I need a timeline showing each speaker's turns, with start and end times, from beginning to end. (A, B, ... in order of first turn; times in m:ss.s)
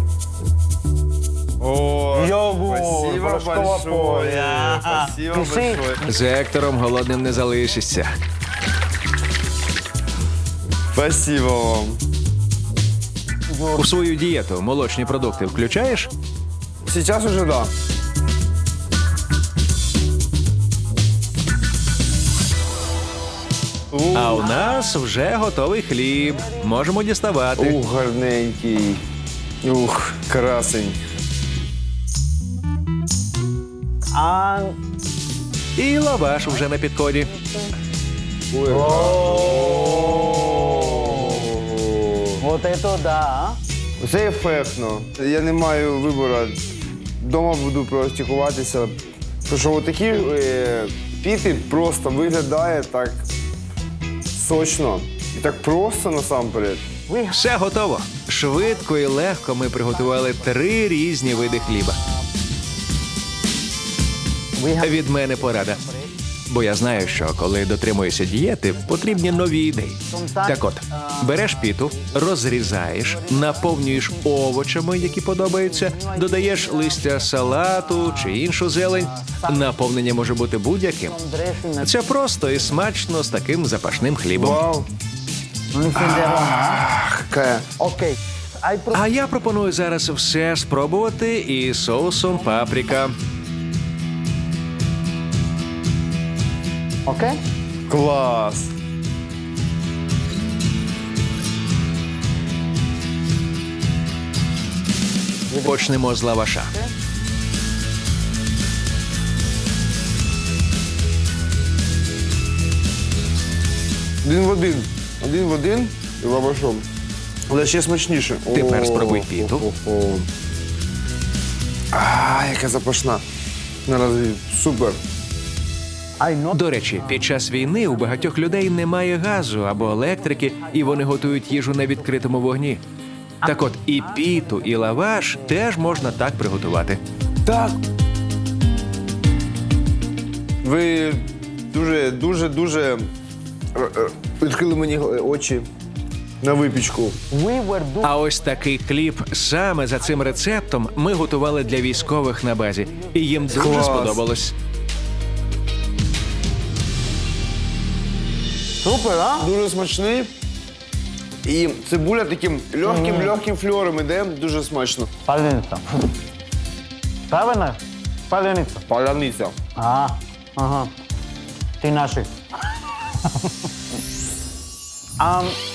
0:01.6-0:06.0 A
0:02.1-0:06.1 B
0:06.0-0:08.1 C
0:10.9-0:12.0 A
0:13.5-0:14.0 B
0:13.8-0:16.1 C
0:16.8-0:17.7 A
0:23.9-0:24.5 A
0:24.1-0:27.8 C
0:24.4-0:24.8 B
0:26.2-0:26.7 B
0:27.6-0:29.0 A
0:29.6-0:31.0 A
0:34.1-0:34.8 B
0:35.8-0:37.3 C
0:37.3-0:37.7 B
0:38.5-0:42.4 A
0:38.6-0:41.5 B
0:42.4-0:43.6 B
0:44.0-0:46.6 A
0:47.2-0:53.2 A
0:54.3-0:56.8 A
0:57.1-0:57.5 B
0:57.3-1:02.0 C
0:59.9-1:00.6 B
1:01.3-1:02.2 B
1:04.6-1:06.1 B
1:04.8-1:05.8 C
1:06.5-1:21.2 C
1:08.7-1:09.4 B
1:10.0-1:12.2 B
1:13.0-1:14.3 B
1:15.4-1:18.4 B
1:19.0-1:19.7 B
1:21.0-1:22.0 B
1:21.8-1:24.6 C
1:24.3-1:24.9 A
1:25.7-1:26.8 B
1:25.9-1:27.7 A
1:27.8-1:29.0 B
1:28.9-1:33.1 C
1:37.0-1:37.4 B
1:37.9-1:38.7 A
1:45.5-1:45.9 B
1:45.6-1:46.7 C
1:54.2-1:56.8 A
1:57.5-2:00.2 A
1:58.5-1:59.6 C
2:01.9-2:03.2 A
2:03.8-2:05.0 A
2:06.2-2:08.5 B
2:06.5-2:12.8 C
2:10.0-2:12.1 B
2:13.4-2:16.0 B
2:13.4-2:17.0 C
2:17.4-2:17.8 A
2:20.6-2:23.1 A
2:23.7-2:25.7 A
2:26.4-2:27.2 A
2:27.3-2:28.3 B
2:28.0-2:34.5 C
2:30.2-2:32.2 B
2:32.8-2:33.8 B
2:33.5-2:34.2 A
2:38.8-2:39.5 B
2:39.4-2:40.3 A
2:41.4-2:45.1 A
2:42.8-2:43.3 B
2:45.2-2:46.0 B
2:47.3-2:48.8 B
2:48.9-2:49.6 A
2:49.8-2:50.9 B
2:51.8-2:52.3 B
2:53.1-2:53.7 B
2:55.2-2:55.6 B